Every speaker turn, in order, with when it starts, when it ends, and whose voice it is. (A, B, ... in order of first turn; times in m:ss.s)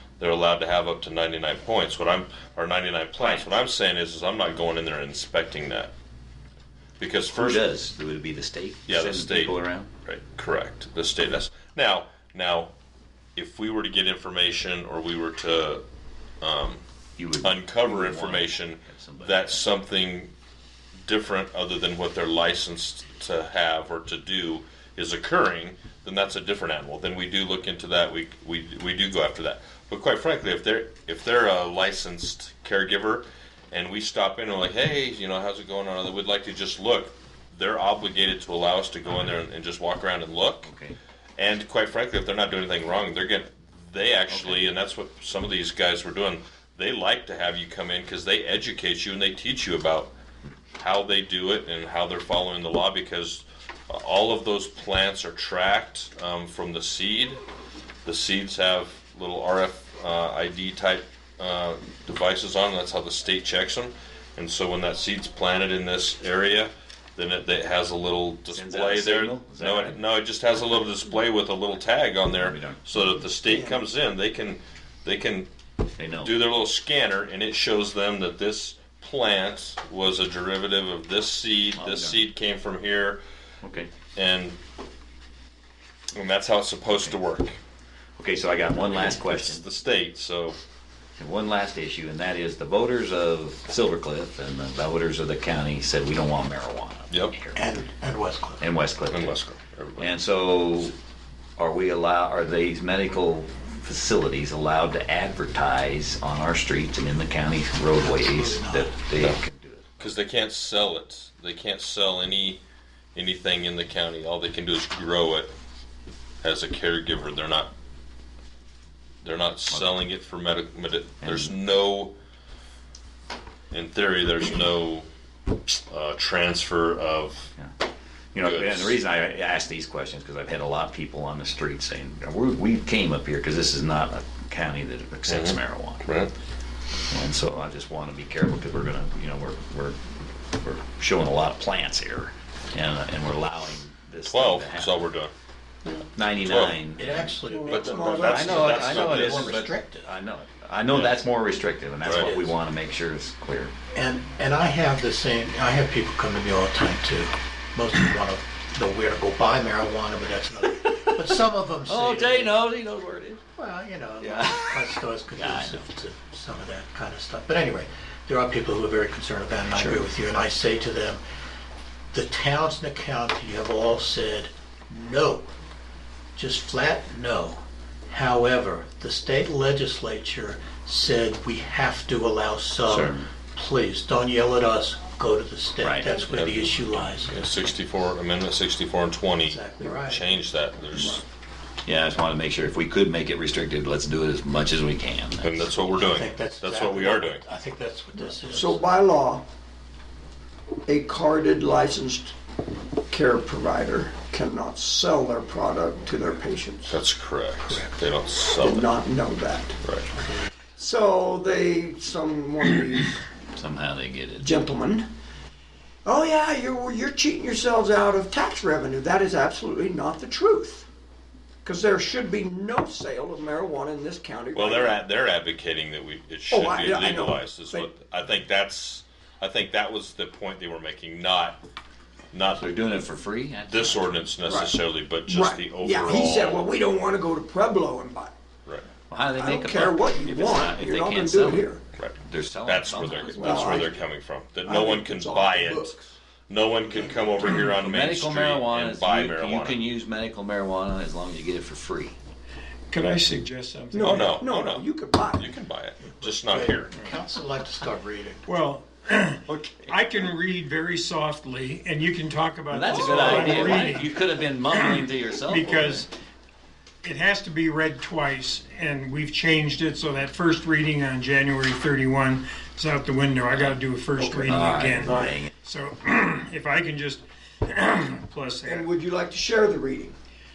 0:00.2-0:05.9 A
0:03.2-0:03.5 B
0:07.0-0:07.7 A
0:07.3-0:09.9 B
0:08.9-0:12.7 A
0:13.4-0:15.8 A
0:16.4-0:16.8 A
0:17.2-0:19.6 B
0:17.4-0:20.3 A
0:21.0-0:40.7 A
0:40.6-0:41.0 B
0:41.4-0:50.1 A
0:44.3-0:44.7 B
0:50.8-0:57.4 A
0:58.0-1:15.5 A
1:08.5-1:10.0 B
1:12.4-1:13.0 B
1:13.5-1:13.8 C
1:16.0-1:16.3 B
1:16.2-1:23.2 A
1:21.7-1:22.2 B
1:23.6-1:23.9 B
1:24.2-1:24.6 A
1:26.2-1:27.6 A
1:28.2-1:29.6 B
1:28.8-1:30.6 A
1:31.2-1:37.6 B
1:37.5-1:38.6 D
1:38.6-1:39.3 B
1:39.1-1:40.2 A
1:40.0-1:41.0 B
1:41.6-1:50.0 B
1:48.0-1:49.0 D
1:50.0-1:52.6 A
1:53.2-1:55.5 A
1:56.4-1:57.7 A
1:59.2-2:02.2 A
1:59.7-2:00.0 B
2:01.2-2:01.5 B
2:03.7-2:05.1 A
2:05.7-2:07.5 A
2:08.3-2:16.1 B
2:08.4-2:09.0 A
2:15.3-2:16.3 A
2:17.1-2:24.9 B
2:24.3-2:25.3 A
2:26.2-2:27.1 B
2:26.4-2:29.6 A
2:27.0-2:30.2 D
2:27.5-2:29.0 C
2:28.2-2:33.7 B
2:32.0-2:32.3 A
2:32.1-2:32.6 D
2:33.9-2:42.6 D
2:41.9-2:43.4 B
2:43.6-2:51.2 D
2:44.2-2:45.8 B
2:49.8-2:50.0 B
2:52.1-2:55.5 D
2:56.4-3:07.5 D
3:02.9-3:03.3 B
3:05.8-3:06.1 B
3:06.0-3:11.2 A
3:09.5-3:10.3 D
3:11.8-3:15.7 B
3:15.4-3:17.4 A
3:16.0-3:18.8 D
3:18.5-3:19.4 C
3:20.9-3:22.4 C
3:23.1-3:27.0 C
3:26.9-3:28.9 A
3:28.6-3:29.8 C
3:29.8-3:30.1 A
3:30.8-3:33.2 C
3:33.5-3:34.6 B
3:34.4-3:35.1 C
3:36.0-3:40.9 C
3:41.6-3:45.0 C
3:44.6-3:51.6 A
3:46.5-3:47.9 C
3:52.3-3:52.6 A
3:52.6-3:54.2 B
3:53.7-3:56.7 A
3:54.5-3:54.8 C
3:55.3-3:58.3 C
3:59.1-4:03.8 B
3:59.4-4:01.8 C
4:02.0-4:06.0 A
4:03.3-4:04.0 C
4:04.6-4:06.1 C
4:06.5-4:09.8 A
4:07.6-4:12.2 B
4:12.9-4:14.4 E
4:13.9-4:15.5 C
4:14.0-4:17.1 A
4:16.2-4:18.5 D
4:18.5-4:26.1 E
4:19.5-4:20.0 B
4:22.7-4:26.0 B
4:23.2-4:23.6 C
4:27.0-4:38.9 E
4:34.2-4:35.3 C
4:34.5-4:35.5 B
4:38.6-4:40.2 C